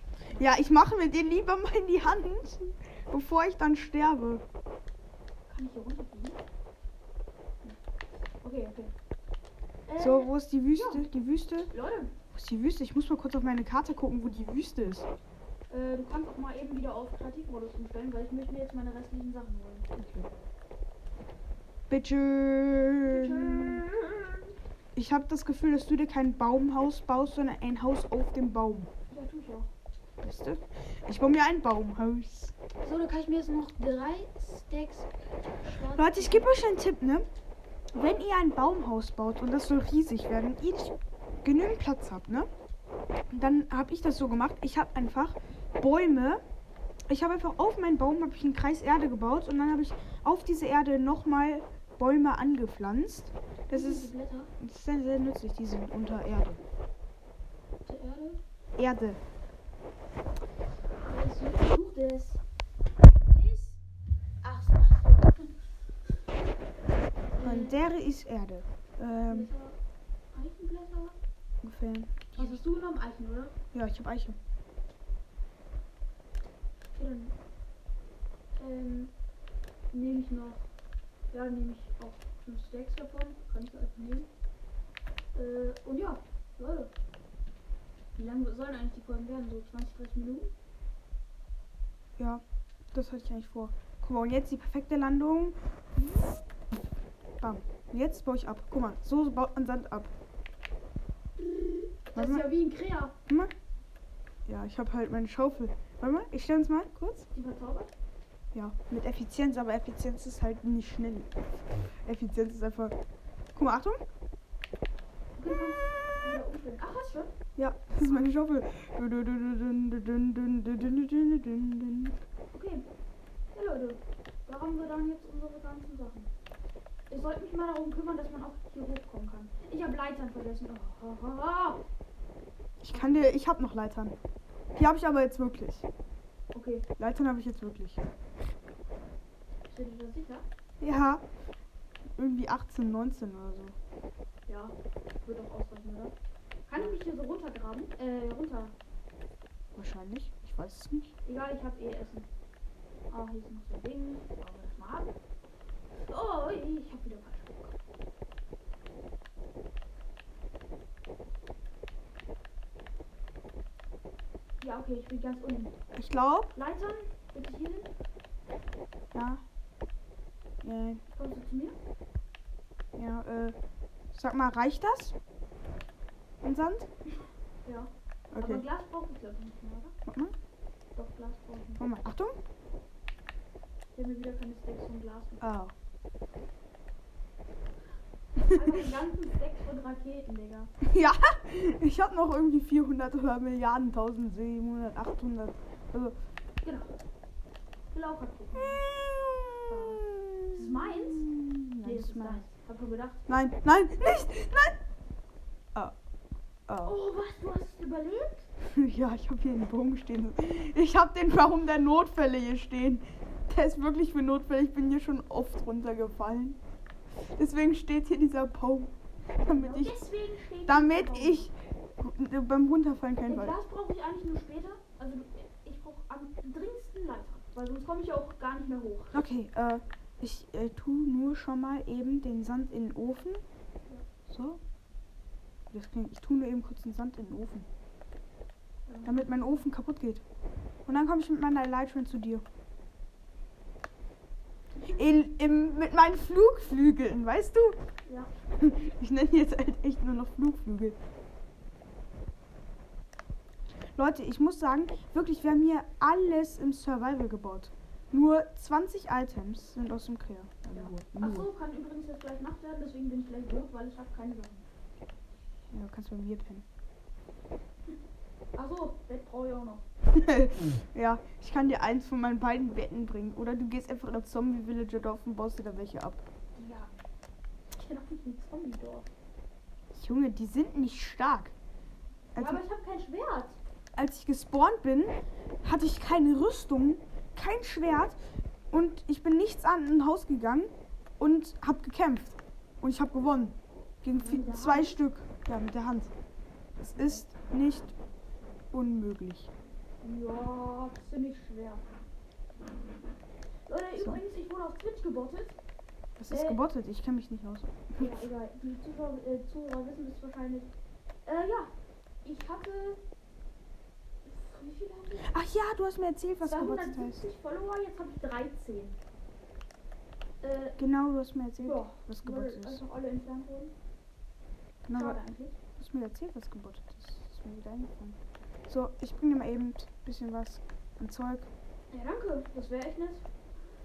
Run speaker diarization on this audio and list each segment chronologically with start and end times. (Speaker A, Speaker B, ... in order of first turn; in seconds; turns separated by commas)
Speaker A: 0.3-4.4, Speaker B: 5.5-6.4, Speaker B: 8.4-8.9, Speaker B: 9.9-11.1, Speaker A: 10.0-11.7, Speaker B: 11.7-12.1, Speaker A: 12.3-15.1, Speaker B: 15.7-19.9, Speaker A: 20.0-20.3, Speaker A: 21.9-23.8, Speaker B: 23.1-24.5, Speaker A: 24.9-28.9, Speaker B: 29.1-29.7, Speaker A: 30.2-32.5, Speaker B: 32.8-35.1, Speaker B: 35.6-36.6, Speaker A: 36.0-37.3, Speaker A: 37.9-42.5, Speaker A: 43.3-46.4, Speaker A: 47.1-56.6, Speaker B: 53.7-54.5, Speaker B: 57.9-58.4, Speaker A: 58.8-59.2, Speaker B: 61.1-62.4, Speaker B: 63.3-63.8, Speaker B: 64.4-65.5, Speaker B: 67.3-67.8, Speaker A: 67.4-69.5, Speaker B: 69.3-69.8, Speaker B: 70.3-71.2, Speaker A: 71.6-72.6, Speaker B: 72.3-73.5, Speaker A: 73.7-74.4, Speaker B: 77.0-77.4, Speaker B: 78.6-79.1, Speaker B: 79.9-80.7, Speaker B: 81.3-84.3, Speaker B: 85.3-86.9, Speaker B: 88.2-90.5, Speaker A: 92.9-95.6, Speaker B: 96.0-96.4, Speaker A: 97.4-100.1, Speaker B: 101.4-103.2, Speaker A: 102.2-102.5, Speaker A: 104.5-107.3, Speaker B: 107.3-107.9, Speaker A: 108.5-111.3, Speaker A: 112.0-113.0, Speaker A: 113.5-114.0, Speaker B: 115.4-117.3, Speaker A: 117.6-122.2, Speaker B: 122.5-122.9, Speaker B: 123.5-126.3, Speaker B: 127.1-131.8, Speaker A: 132.8-134.2, Speaker B: 132.9-133.3, Speaker A: 134.8-135.9, Speaker B: 136.5-136.9, Speaker A: 137.0-138.0, Speaker B: 139.7-140.4, Speaker A: 140.8-141.2, Speaker A: 142.2-143.8, Speaker B: 144.5-146.1, Speaker B: 146.7-148.8, Speaker A: 149.8-151.2, Speaker B: 151.2-152.3, Speaker B: 153.1-155.2, Speaker B: 156.1-157.8, Speaker B: 164.6-165.8, Speaker A: 166.0-166.5, Speaker B: 166.5-167.9, Speaker A: 169.1-169.4, Speaker A: 170.6-171.0, Speaker B: 171.1-171.8, Speaker A: 172.9-173.6, Speaker A: 174.1-175.2, Speaker A: 176.4-176.9, Speaker B: 177.7-179.9, Speaker A: 178.3-178.7, Speaker A: 180.1-180.3, Speaker B: 180.9-181.8, Speaker A: 181.8-182.4, Speaker B: 183.9-185.5, Speaker A: 185.4-185.7, Speaker B: 188.4-190.7, Speaker A: 190.8-196.2, Speaker B: 196.6-196.9, Speaker B: 197.9-198.8, Speaker A: 198.9-202.5, Speaker B: 199.7-201.3, Speaker B: 201.8-203.3, Speaker A: 203.3-204.8, Speaker A: 206.7-206.9, Speaker B: 206.8-208.5, Speaker A: 208.7-216.6, Speaker A: 217.3-219.9, Speaker B: 219.4-221.5, Speaker A: 220.7-223.6, Speaker B: 223.3-229.2, Speaker A: 229.1-233.4, Speaker A: 234.3-234.6, Speaker A: 235.7-237.7, Speaker B: 238.9-239.2, Speaker A: 239.1-240.2, Speaker A: 240.9-242.4, Speaker A: 244.8-247.8, Speaker B: 248.1-248.3, Speaker A: 248.6-251.0, Speaker A: 254.0-261.5, Speaker B: 260.7-264.7, Speaker A: 265.7-266.6, Speaker B: 268.6-269.9, Speaker A: 270.1-276.2, Speaker B: 276.6-277.0, Speaker B: 277.7-279.1, Speaker A: 279.9-281.5, Speaker A: 282.4-282.6, Speaker B: 282.4-283.6, Speaker A: 284.0-288.2, Speaker A: 288.7-296.1, Speaker B: 294.2-295.0, Speaker A: 296.8-297.9, Speaker A: 298.7-299.5, Speaker B: 300.0-301.9, Speaker B: 303.7-305.6, Speaker A: 304.0-304.2, Speaker A: 306.2-308.1, Speaker B: 306.3-306.6, Speaker B: 308.0-310.7, Speaker B: 311.2-311.7, Speaker B: 312.2-313.0, Speaker B: 314.2-315.3, Speaker A: 315.2-317.2, Speaker B: 316.4-319.0, Speaker B: 320.4-320.8, Speaker A: 320.8-322.9, Speaker B: 321.6-323.8, Speaker A: 324.9-325.2, Speaker B: 324.9-325.6, Speaker A: 325.8-331.5, Speaker B: 331.9-333.2